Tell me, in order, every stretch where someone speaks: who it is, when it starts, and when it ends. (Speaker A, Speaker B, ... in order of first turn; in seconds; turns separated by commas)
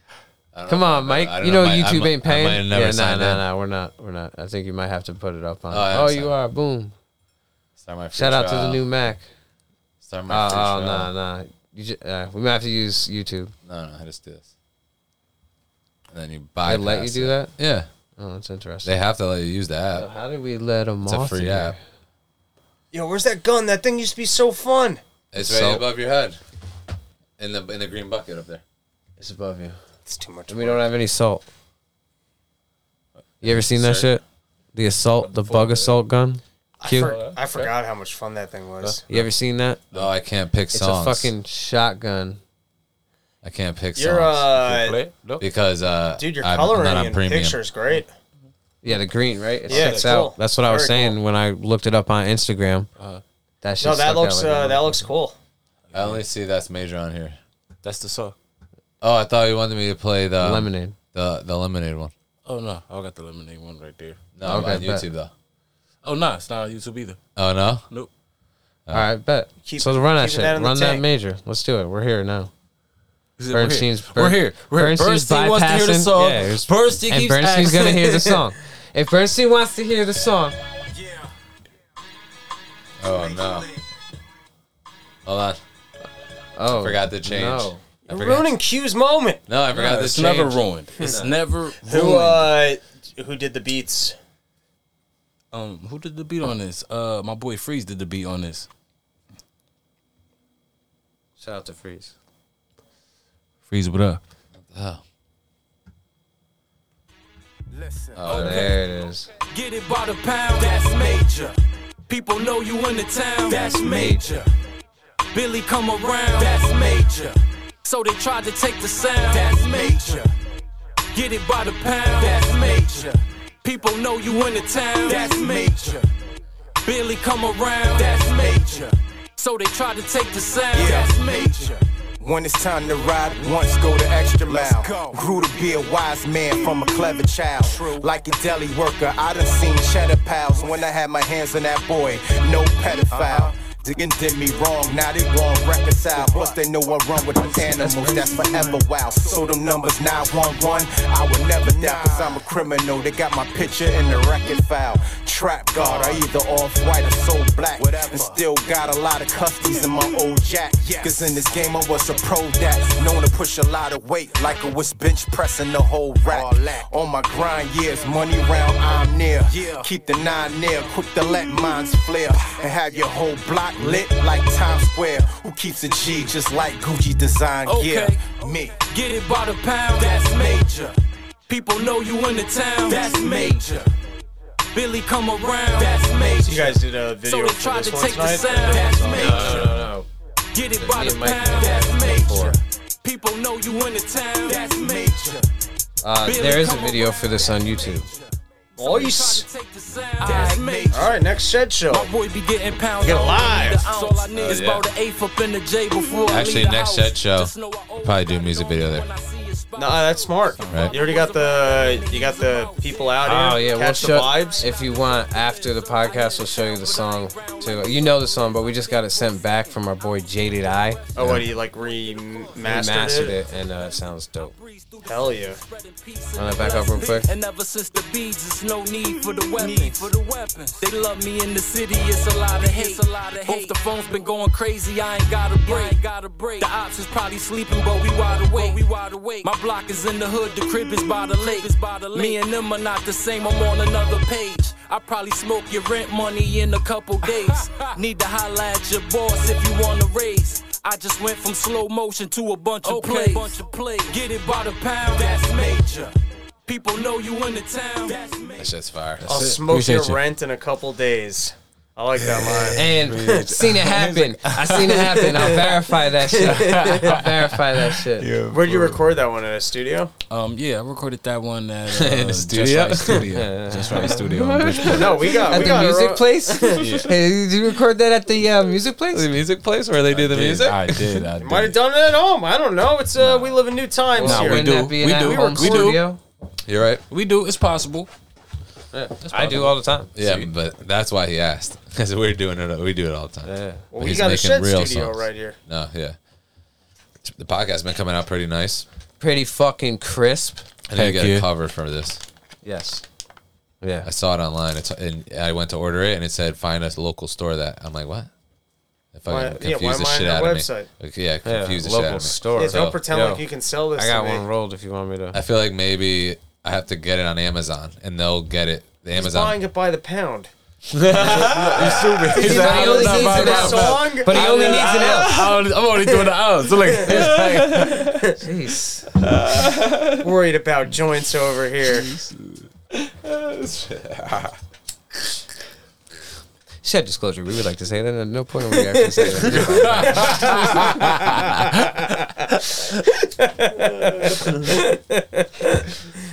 Speaker A: 0.5-3.4, Speaker B: 0.7-6.9, Speaker A: 5.7-6.3, Speaker A: 7.8-8.8, Speaker B: 8.1-9.2, Speaker A: 10.0-11.1, Speaker B: 10.3-13.5, Speaker A: 13.7-14.5, Speaker A: 16.1-17.9, Speaker B: 16.6-17.5, Speaker B: 18.2-18.9, Speaker A: 18.8-20.1, Speaker B: 19.9-21.8, Speaker A: 21.0-21.7, Speaker C: 22.9-25.0, Speaker A: 25.3-26.4, Speaker B: 25.4-25.9, Speaker A: 27.4-28.6, Speaker B: 29.2-29.8, Speaker C: 30.1-30.9, Speaker B: 30.5-31.4, Speaker B: 33.4-34.2, Speaker A: 33.5-34.1, Speaker B: 34.7-37.1, Speaker D: 35.2-36.0, Speaker C: 36.8-39.0, Speaker D: 37.0-37.7, Speaker D: 38.8-39.3, Speaker B: 39.1-39.8, Speaker A: 39.9-41.3, Speaker B: 40.7-42.4, Speaker A: 43.4-44.5, Speaker C: 43.9-45.0, Speaker D: 44.6-45.4, Speaker A: 45.4-47.6, Speaker C: 46.2-48.1, Speaker B: 48.8-52.9, Speaker D: 49.7-50.2, Speaker C: 49.7-51.2, Speaker B: 53.6-55.0, Speaker C: 53.8-55.4, Speaker D: 55.9-56.2, Speaker A: 55.9-57.4, Speaker D: 57.8-58.4, Speaker A: 59.0-62.1, Speaker B: 60.4-61.0, Speaker D: 62.5-64.2, Speaker A: 64.3-65.3, Speaker B: 64.4-65.0, Speaker D: 66.0-67.2, Speaker A: 67.3-67.8, Speaker B: 68.9-72.5, Speaker C: 69.6-71.0, Speaker D: 73.4-78.3, Speaker B: 73.5-80.6, Speaker A: 83.0-83.7, Speaker A: 85.2-85.6, Speaker B: 86.5-87.8, Speaker A: 86.7-88.6, Speaker C: 88.1-89.4, Speaker A: 89.5-90.6, Speaker D: 89.7-92.5, Speaker B: 91.0-91.3, Speaker C: 91.8-94.2, Speaker D: 95.5-98.7, Speaker B: 101.4-102.1, Speaker D: 103.7-104.2, Speaker A: 104.5-105.0, Speaker E: 107.7-108.3, Speaker A: 108.1-108.7, Speaker B: 108.2-109.3, Speaker F: 109.5-111.5, Speaker F: 112.1-114.5, Speaker B: 113.8-114.2, Speaker F: 115.3-117.3, Speaker F: 117.8-120.3, Speaker E: 119.5-120.2, Speaker F: 121.1-126.0, Speaker E: 122.6-123.1, Speaker E: 125.1-126.0, Speaker F: 126.8-131.8, Speaker E: 128.4-128.8, Speaker E: 130.7-178.8, Speaker B: 147.8-148.7, Speaker F: 177.6-180.9, Speaker E: 180.4-180.8, Speaker F: 181.5-183.8, Speaker E: 182.9-183.8, Speaker F: 184.7-189.9, Speaker C: 186.4-189.7, Speaker B: 189.1-190.1, Speaker F: 190.5-195.4, Speaker B: 190.8-192.6, Speaker E: 192.0-192.4, Speaker E: 194.5-195.4, Speaker B: 196.0-198.1, Speaker F: 196.2-201.2, Speaker C: 198.8-199.5, Speaker E: 200.2-201.1, Speaker C: 200.9-202.1, Speaker F: 201.9-222.7, Speaker C: 203.0-204.2, Speaker A: 204.4-204.8, Speaker A: 206.3-209.1, Speaker C: 209.8-214.6, Speaker D: 210.6-210.9, Speaker A: 210.7-210.9, Speaker B: 213.2-221.0, Speaker C: 221.2-223.3, Speaker B: 222.6-224.5, Speaker F: 223.5-256.1, Speaker C: 225.1-225.6, Speaker B: 226.3-227.3, Speaker D: 253.0-253.3, Speaker E: 255.2-255.8, Speaker F: 256.6-258.7, Speaker A: 258.6-259.4, Speaker D: 259.2-260.2, Speaker C: 259.2-263.4, Speaker D: 262.1-265.6, Speaker B: 262.7-268.3, Speaker C: 265.3-265.7, Speaker C: 266.3-267.2, Speaker D: 266.3-269.0, Speaker C: 268.5-270.1, Speaker D: 270.3-275.7, Speaker A: 271.9-273.3, Speaker B: 273.3-279.3, Speaker C: 274.9-276.9, Speaker D: 276.7-277.1, Speaker A: 279.1-281.3, Speaker D: 280.1-281.8, Speaker C: 281.4-286.0, Speaker A: 283.1-283.6, Speaker B: 284.1-286.2, Speaker D: 284.2-286.0, Speaker A: 286.6-287.0, Speaker D: 287.1-288.1, Speaker B: 288.9-290.1, Speaker D: 289.2-290.5, Speaker A: 290.1-296.1, Speaker B: 293.4-293.8, Speaker C: 293.9-295.6, Speaker A: 297.2-298.9, Speaker B: 299.2-300.6, Speaker A: 300.9-302.2, Speaker D: 300.9-301.5, Speaker B: 302.6-303.0, Speaker B: 303.8-304.1, Speaker A: 304.0-308.3, Speaker A: 309.1-313.0, Speaker C: 309.3-310.9, Speaker B: 311.4-313.4, Speaker C: 312.6-314.4, Speaker B: 314.0-315.4, Speaker A: 315.3-319.6, Speaker C: 319.1-320.5, Speaker A: 320.9-322.2, Speaker D: 321.1-328.1, Speaker C: 321.2-326.3, Speaker B: 322.3-325.3, Speaker C: 326.8-327.4, Speaker A: 327.1-328.2, Speaker C: 328.0-328.3, Speaker B: 328.4-329.1, Speaker A: 329.2-330.3, Speaker C: 330.2-332.1, Speaker D: 332.1-332.5, Speaker A: 332.9-334.5, Speaker B: 336.8-340.5, Speaker C: 339.2-339.6, Speaker D: 339.7-341.4, Speaker C: 340.1-345.9